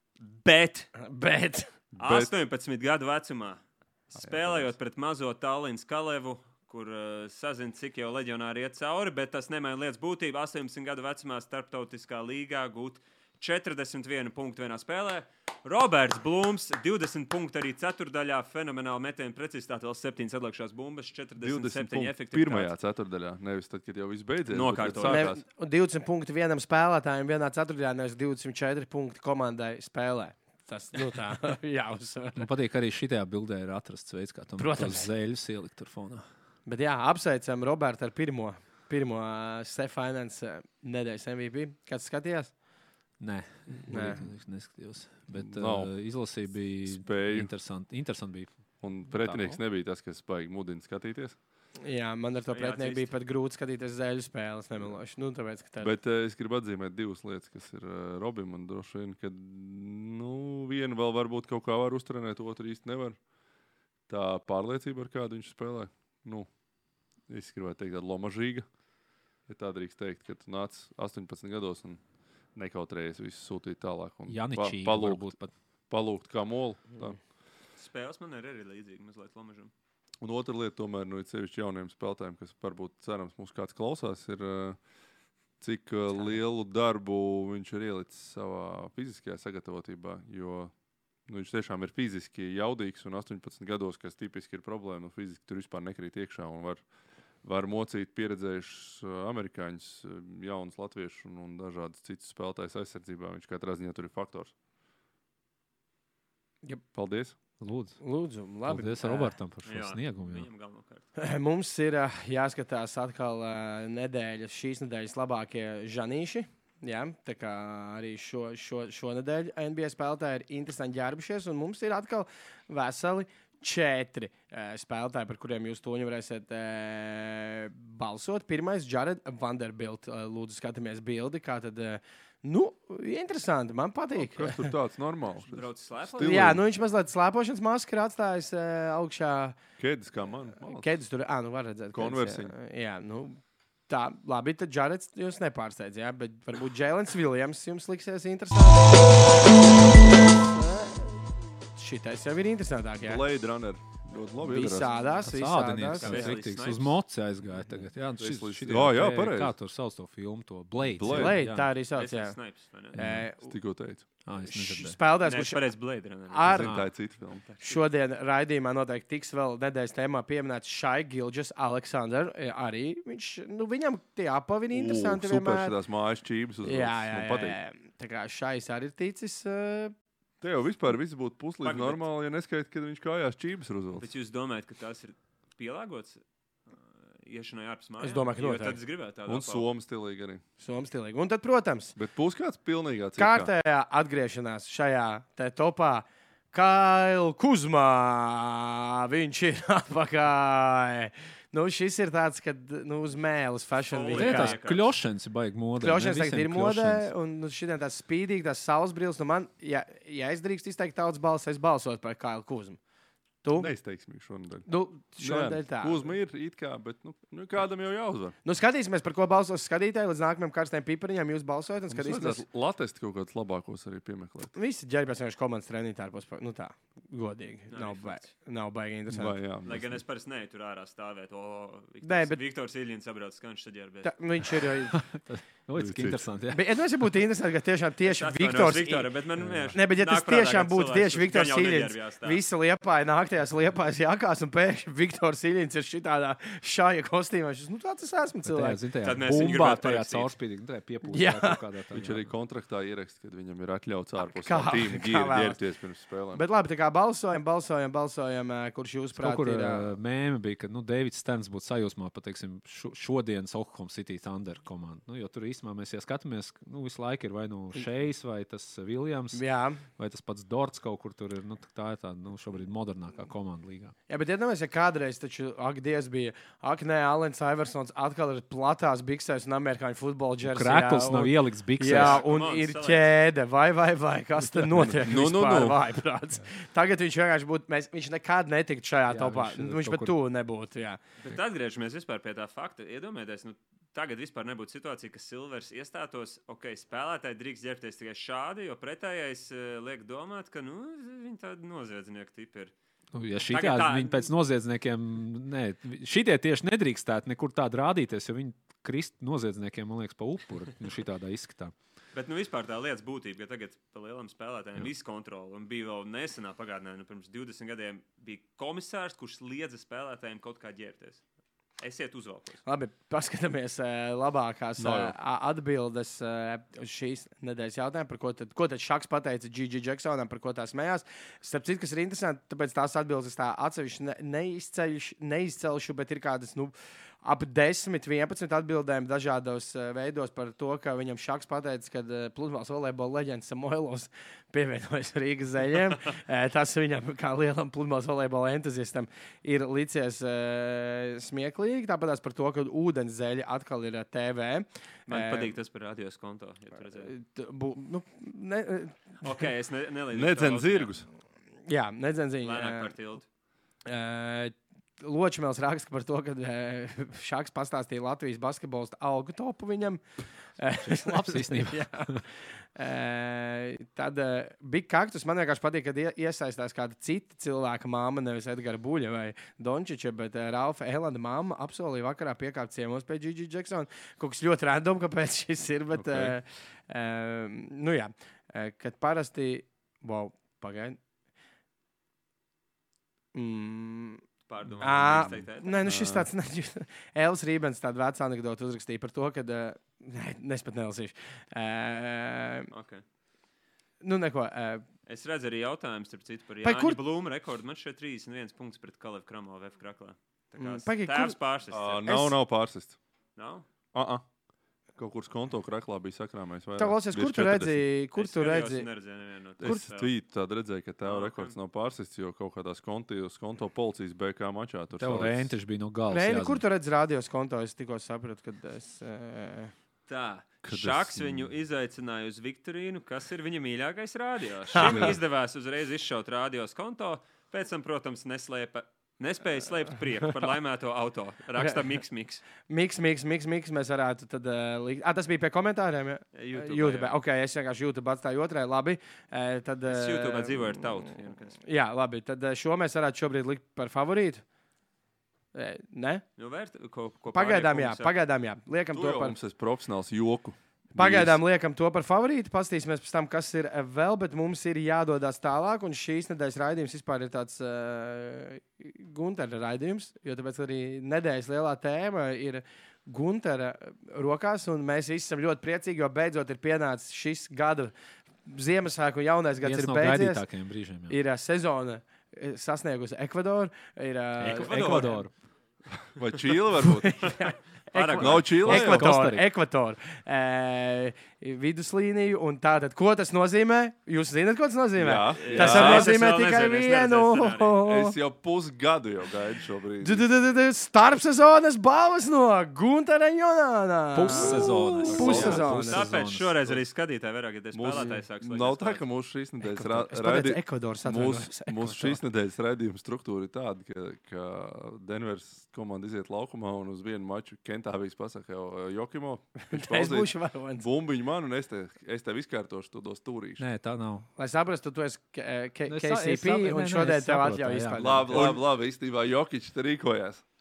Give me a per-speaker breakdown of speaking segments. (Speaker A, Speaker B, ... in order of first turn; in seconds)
Speaker A: 0.2-0.9, 2.0-22.7, 24.5-25.3, 52.5-53.1, 77.8-79.7, 109.6-111.0, 135.5-136.6, 156.0-157.0, 161.9-162.9, 165.2-166.7, 167.4-167.8, 181.6-182.0, 183.9-186.2, 187.2-189.7, 203.9-205.0, 227.7-228.3, 229.6-234.6, 238.0-242.4, 249.0-250.3, 281.9-283.1, 291.2-302.7, 303.5-304.3, 312.1-321.2, 321.8-322.6, 355.1-357.1, 359.2-360.9, 362.4-363.2, 394.5-395.8, 402.7-403.0, 405.1-412.0, 413.4-413.7, 418.1-420.1, 421.0-421.6, 430.1-442.4, 446.3-447.2, 449.9-451.6, 456.4-458.1, 484.5-485.2, 487.9-488.5, 495.4-497.8, 505.2-509.0, 528.3-528.6
Speaker B: 1.0-1.7, 25.0-32.5, 34.6-35.1, 36.6-42.6, 43.9-44.3, 51.8-56.0, 108.0-109.3, 111.2-134.7, 136.2-139.6, 140.7-153.2, 154.4-156.4, 161.1-162.4, 162.9-163.5, 164.4-165.7, 166.3-166.8, 167.6-175.7, 176.6-179.9, 188.0-188.8, 190.6-191.9, 193.2-204.6, 205.8-212.8, 213.4-213.7, 214.7-216.1, 218.4-222.4, 224.5-229.3, 232.0-232.4, 234.0-235.0, 236.5-239.1, 239.7-248.8, 251.1-251.6, 254.2-255.6, 256.3-259.9, 269.3-269.8, 274.1-291.0, 322.6-355.5, 356.8-359.4, 361.7-362.9, 363.9-391.0, 393.3-394.2, 394.8-402.7, 404.0-404.8, 406.6-407.0, 410.6-411.4, 412.1-412.4, 416.8-418.9, 419.6-419.9, 426.1-429.7, 434.7-435.2, 442.6-451.1, 451.6-454.4, 455.5-456.2, 457.3-459.4, 460.9-477.9, 478.4-480.5, 481.1-485.2, 486.8-498.2, 500.0-506.1, 509.6-512.2, 519.6-520.9, 524.4-528.5
Speaker C: 1.9-2.3, 4.2-4.7, 21.4-25.4, 45.3-47.5, 48.8-51.4, 54.8-55.0, 55.8-63.2, 64.1-66.5, 67.2-68.7, 69.4-75.3, 75.9-77.2, 80.2-84.8, 85.6-96.8, 97.4-104.5, 106.9-107.3, 134.1-136.6, 139.8-140.9, 141.9-142.5, 153.0-154.9, 158.2-159.5, 160.8-161.4, 163.0-164.1, 166.4-167.4, 174.7-177.6, 180.4-184.1, 189.3-190.4, 191.9-193.5, 213.6-218.3, 221.9-224.5, 229.1-230.0, 235.8-236.2, 251.9-256.4, 284.7-285.8, 324.8-325.1, 360.1-361.1, 385.9-386.3, 394.9-396.3, 411.7-413.0, 413.9-414.2, 414.9-417.9, 419.6-425.5, 430.6-431.5, 434.8-435.2, 458.9-461.4, 486.0-487.4, 488.1-489.2, 495.0-496.1, 497.8-500.3, 504.3-505.8, 507.7-523.6, 528.0-530.5
Speaker D: 32.4-36.3, 43.2-49.6, 74.3-75.5, 107.6-108.0, 108.6-110.5, 155.2-161.7, 162.9-163.3, 164.2-165.0, 166.6-166.9, 204.1-207.1, 234.9-236.7, 239.4-239.8, 248.4-252.3, 259.1-273.9, 280.4-282.2, 289.1-290.1, 303.1-311.7, 370.8-372.2, 425.0-426.6, 479.6-481.2, 484.4-485.3, 488.6-489.5, 504.1-506.5, 523.6-524.3, 525.9-528.2